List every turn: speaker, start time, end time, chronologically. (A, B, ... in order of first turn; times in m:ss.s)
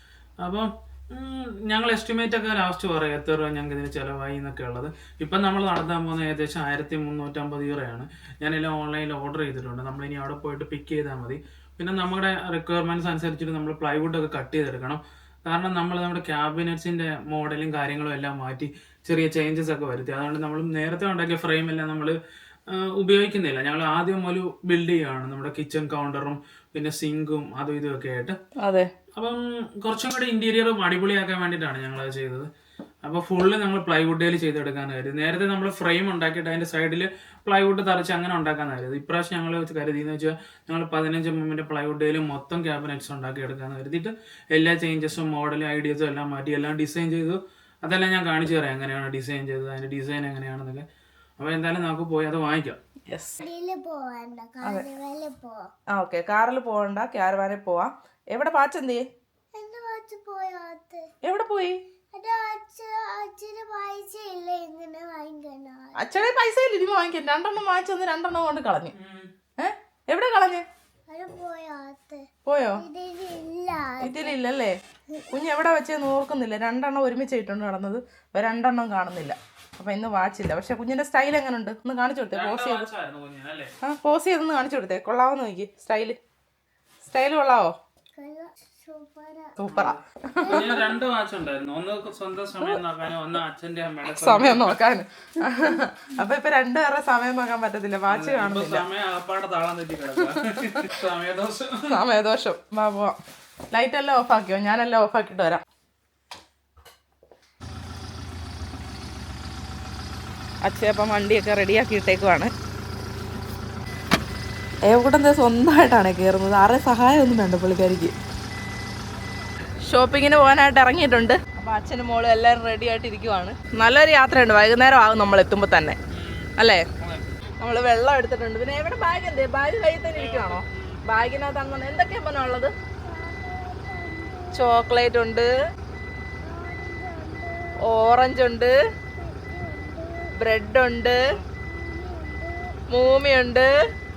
0:00.4-0:28.4 A
0:28.6-0:28.9 B
0:29.2-0:32.5 A
0:33.0-0:50.9 A
0:51.4-0:52.8 A
0:53.1-0:53.5 B
0:53.4-0:55.7 C
0:54.6-0:54.9 B
0:55.9-0:59.0 B
0:59.6-1:01.1 C
1:01.2-1:01.8 B
1:02.1-1:06.0 C
1:06.0-1:09.0 B
1:09.0-1:09.3 A
1:09.6-1:10.7 B
1:11.1-1:14.4 C
1:12.4-1:12.8 B
1:14.0-1:14.8 B
1:15.3-1:22.9 B
1:22.4-1:23.7 A
1:23.8-1:26.2 B
1:27.1-1:27.7 B
1:28.2-1:29.6 C
1:29.6-1:30.8 B
1:29.7-1:30.0 A
1:30.4-1:30.8 C
1:30.5-1:34.8 A
1:34.1-1:38.9 B
1:38.1-1:41.9 A
1:40.2-1:40.9 B
1:41.9-1:43.2 B
1:43.7-1:45.6 B
1:50.6-1:52.5 B
1:54.9-1:58.2 B
1:59.9-2:06.0 B
2:06.1-2:07.4 A
2:06.6-2:06.8 B
2:07.6-2:12.7 B
2:10.2-2:11.0 A
2:13.0-2:14.8 C
2:14.5-2:15.5 B
2:16.4-2:18.0 C
2:17.8-2:18.8 B
2:19.1-2:20.4 C
2:20.4-2:21.4 B
2:21.6-2:22.8 C
2:22.9-2:23.8 B